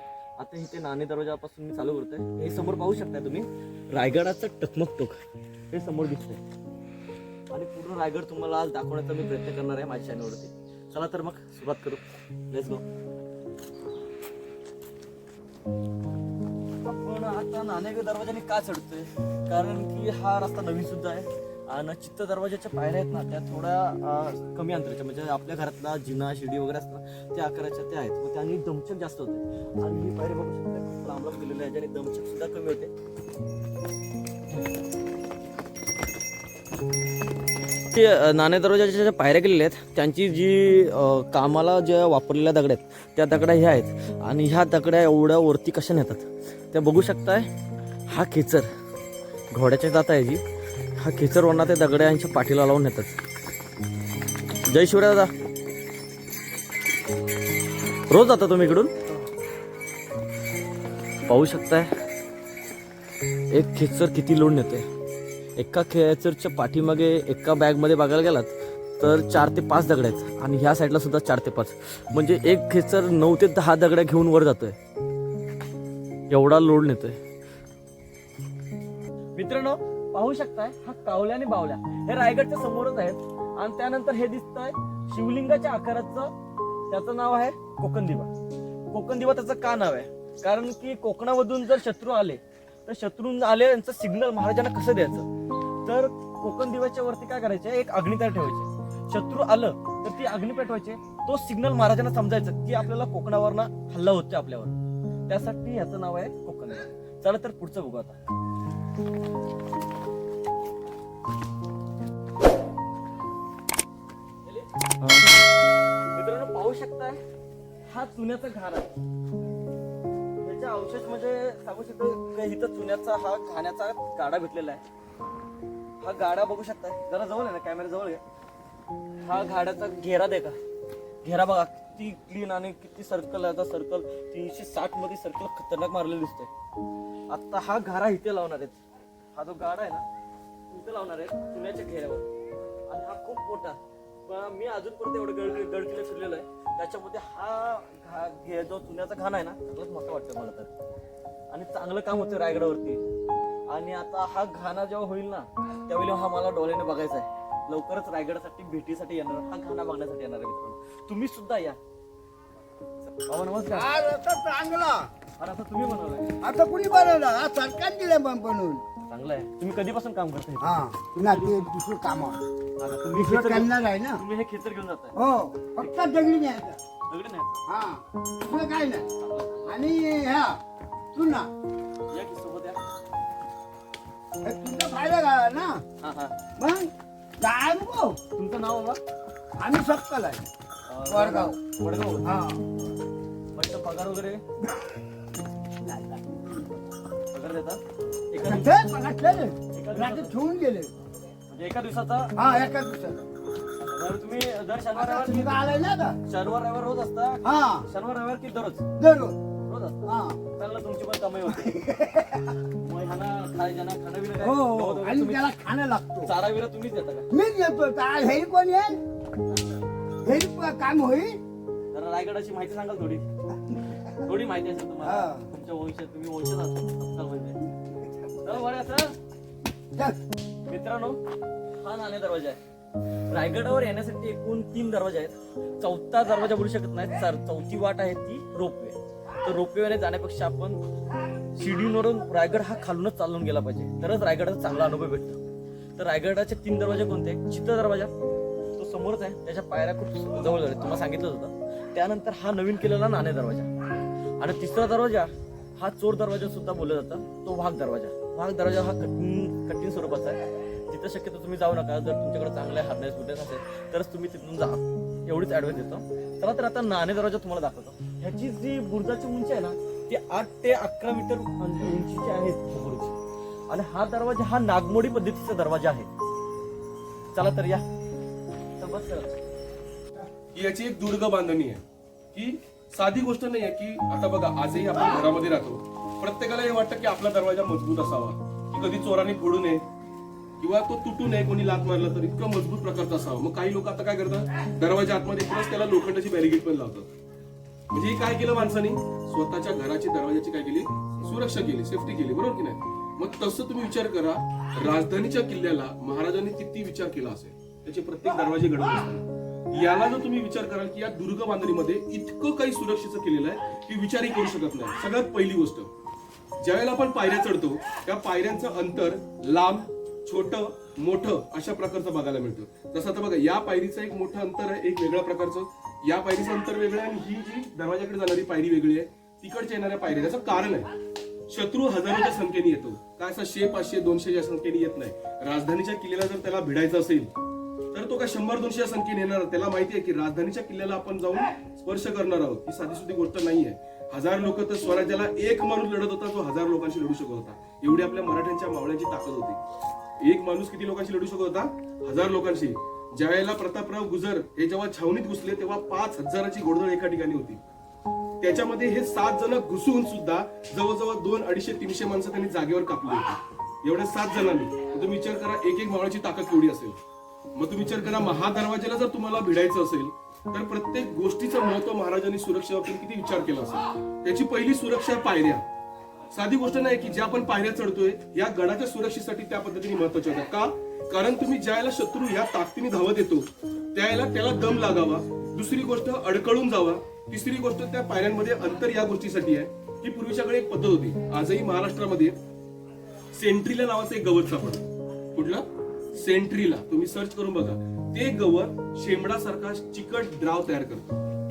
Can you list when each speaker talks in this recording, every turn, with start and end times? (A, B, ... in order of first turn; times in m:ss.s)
0:00.4-0:05.2 A
0:05.7-0:06.4 A
0:07.5-0:12.8 A
0:16.8-0:32.9 A
0:37.9-0:47.5 A
0:48.1-0:48.7 A
0:49.5-0:50.4 A
0:51.0-0:53.2 A
0:54.6-0:55.3 A
0:58.1-0:58.9 A
1:01.2-1:01.9 A
1:03.5-1:04.9 A
1:05.6-1:14.8 A
1:16.3-1:17.2 A
1:19.4-1:26.3 A
1:26.9-1:28.3 A
1:28.9-1:35.3 A
1:35.8-1:44.8 A
1:45.3-1:48.2 A
1:54.4-1:55.3 A
1:56.1-1:57.2 A
1:57.9-1:58.9 A
2:00.4-2:04.8 A
2:06.0-2:08.2 A
2:09.2-2:10.6 A
2:11.2-2:16.5 A
2:17.3-2:18.8 A
2:19.4-2:20.0 A
2:20.7-2:22.3 A
2:22.9-2:30.7 A
2:31.5-2:33.0 A
2:33.7-2:41.8 A
2:43.2-2:43.9 A
2:43.7-2:45.1 B
2:45.4-2:46.3 A
2:46.4-2:48.8 B
2:49.1-2:51.7 A
2:50.6-2:52.4 B
2:52.8-2:55.2 A
2:53.1-2:54.2 B
2:55.2-2:56.8 B
2:57.1-2:57.6 A
2:57.7-2:59.1 B
2:59.2-2:59.8 A
2:59.7-3:00.6 B
3:01.1-3:01.5 B
3:02.1-3:02.8 A
3:04.4-3:05.8 B
3:06.0-3:06.4 A
3:06.6-3:08.2 B
3:08.4-3:09.0 A
3:09.6-3:10.4 B
3:10.9-3:12.3 A
3:11.1-3:11.6 B
3:12.2-3:12.6 B
3:13.5-3:14.4 A
3:15.8-3:16.7 B
3:17.3-3:18.8 A
3:18.4-3:20.9 B
3:19.7-3:20.4 A
3:21.5-3:22.4 A
3:22.4-3:23.3 B
3:23.8-3:25.6 A
3:25.0-3:26.2 B
3:26.2-3:28.8 A
3:27.4-3:27.8 B
3:29.0-3:29.4 B
3:29.6-3:32.0 A
3:30.1-3:30.4 B
3:31.7-3:32.4 B
3:32.8-3:35.6 A
3:34.4-3:36.3 B
3:36.2-3:37.2 A
3:37.3-3:39.0 B
3:40.2-3:41.4 B
3:41.9-3:43.3 A
3:44.2-3:47.6 A
3:45.0-3:45.5 B
3:48.4-3:49.2 A
3:50.7-3:51.2 A
3:51.8-3:52.6 A
3:53.3-4:00.8 A
4:01.5-4:05.4 A
4:06.0-4:08.1 A
4:08.8-4:13.7 A
4:14.4-4:33.2 A
4:33.7-4:36.1 A
4:37.3-4:37.8 A
4:38.8-4:39.3 A
4:40.5-4:41.8 C
4:42.3-4:49.8 C
4:50.6-4:57.1 C
4:57.9-5:15.9 C
5:16.6-5:30.9 C
5:31.5-5:37.3 C
5:37.9-5:49.6 C
5:50.2-5:57.6 C
5:58.4-6:07.0 C
6:07.6-6:15.6 C
6:16.3-6:32.4 C
6:33.4-6:41.1 C